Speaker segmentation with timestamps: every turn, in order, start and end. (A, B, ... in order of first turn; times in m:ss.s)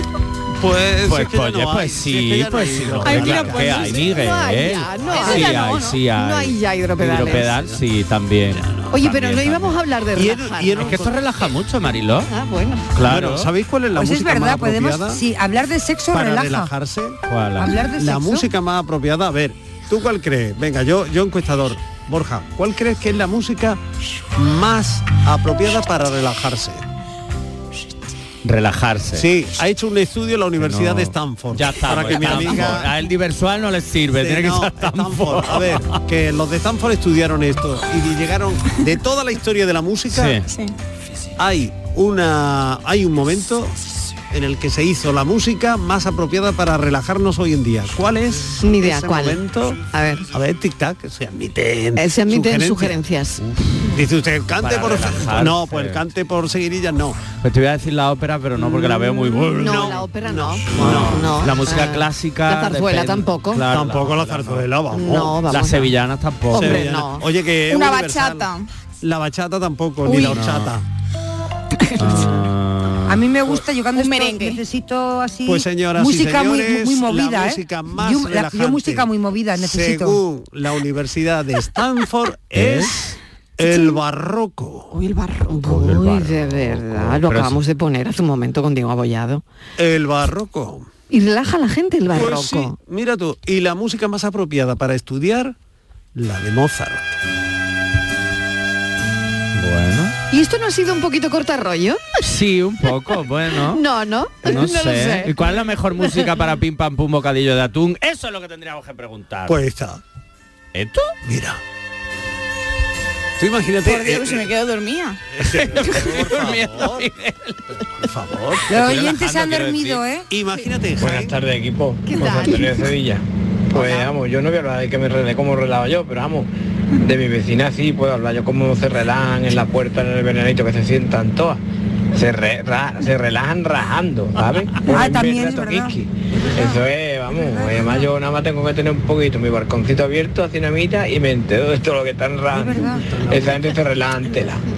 0:00.6-0:04.2 A
0:01.1-0:09.8 B
0:03.0-0:07.6 C
0:05.0-0:05.4 A
0:07.3-0:07.8 A
0:08.5-0:09.0 A
0:08.9-0:11.0 C
0:10.1-0:11.2 A
0:10.8-0:12.3 B
0:12.3-0:12.9 C
0:12.9-0:13.5 B
0:13.0-0:15.2 A
0:13.9-0:16.7 D
0:16.1-0:17.2 A
0:17.3-0:17.8 B
0:17.6-0:18.5 D
0:18.0-0:23.8 A
0:24.4-0:26.8 A
0:28.4-0:29.2 B
0:29.1-0:32.9 A
0:30.6-0:35.9 B
0:34.2-0:40.4 A
0:40.1-0:40.4 B
0:41.4-0:43.8 A
0:44.3-0:53.0 A
0:48.6-0:50.3 C
0:52.0-0:53.4 C
0:53.4-0:53.8 B
0:53.9-0:57.2 A
0:54.6-0:56.0 B
0:57.4-1:00.0 B
0:59.6-1:03.7 C
0:59.6-1:01.3 A
1:00.7-1:04.7 B
1:03.7-1:05.4 A
1:04.9-1:05.9 C
1:05.5-1:06.9 B
1:06.5-1:07.2 C
1:06.5-1:08.5 A
1:07.7-1:08.7 E
1:09.0-1:10.8 A
1:10.2-1:10.7 B
1:12.0-1:13.2 B
1:13.1-1:20.2 D
1:13.9-1:14.6 E
1:15.4-1:23.0 A
1:22.5-1:22.9 B
1:23.6-1:24.9 A
1:24.9-1:29.4 C
1:25.6-1:27.6 B
1:29.8-1:30.9 A
1:31.1-1:32.7 C
1:32.1-1:35.5 A
1:36.1-1:37.1 A
1:39.5-1:40.1 B
1:40.3-1:42.2 C
1:42.2-1:43.8 B
1:43.5-1:45.4 C
1:44.4-1:49.5 B
1:49.4-1:50.0 A
1:50.7-1:51.1 B
1:51.2-1:51.6 A
1:53.4-1:54.5 A
1:53.8-1:55.2 E
1:55.3-1:57.1 A
1:55.5-1:57.6 B
1:57.8-1:58.7 A
1:58.7-2:00.3 D
1:58.7-2:00.0 B
2:00.3-2:01.3 A
2:01.0-2:11.6 F
2:02.0-2:02.9 C
2:03.7-2:04.1 C
2:12.1-2:24.6 F
2:14.8-2:16.0 D
2:17.3-2:18.1 D
2:22.5-2:23.2 D
2:23.1-2:23.5 A